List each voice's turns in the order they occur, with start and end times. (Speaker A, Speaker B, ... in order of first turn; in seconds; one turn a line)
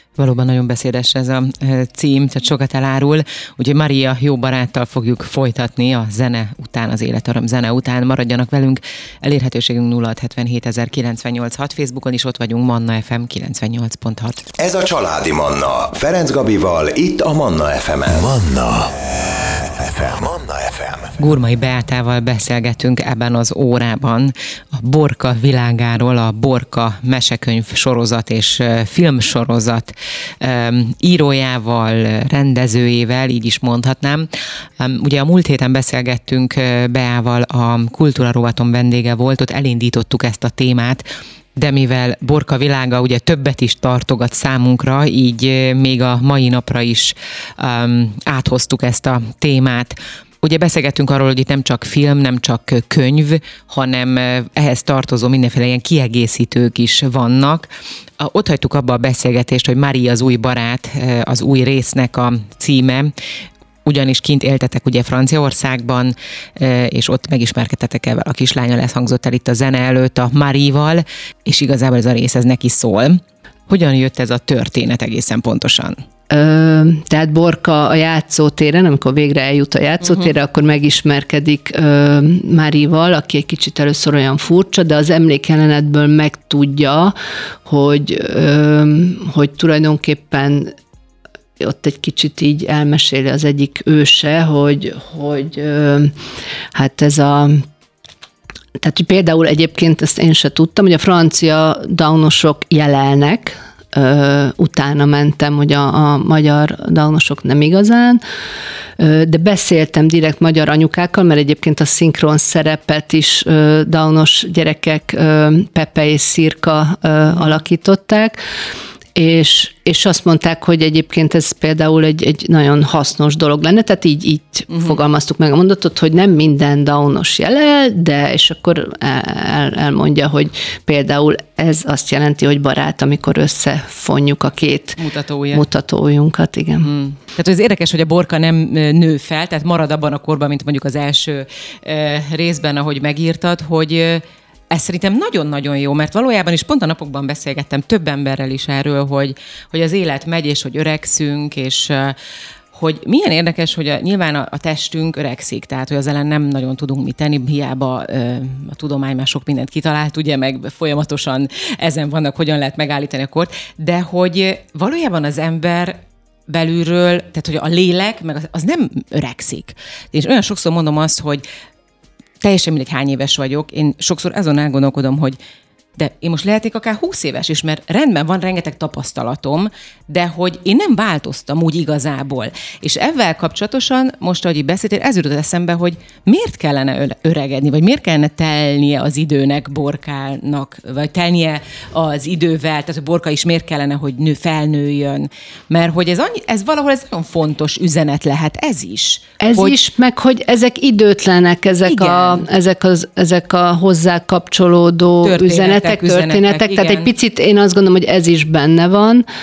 Speaker A: 0.2-14.4
Speaker B: 14.6-21.1
Speaker A: 21.2-63.1
Speaker A: 63.8-76.0
Speaker C: 76.3-87.1
Speaker C: 87.7-90.7
Speaker C: 91.6-96.1
Speaker C: 96.7-97.6
Speaker C: 98.8-108.2
Speaker C: 109.0-118.4
Speaker C: 119.1-135.0
Speaker A: 135.0-135.6
Speaker C: 135.5-136.9
Speaker A: 136.8-152.2
Speaker A: 152.7-171.4
Speaker A: 172.4-175.4
Speaker A: 176.0-199.8
Speaker C: 199.4-209.2
Speaker A: 201.8-202.4
Speaker A: 205.2-207.1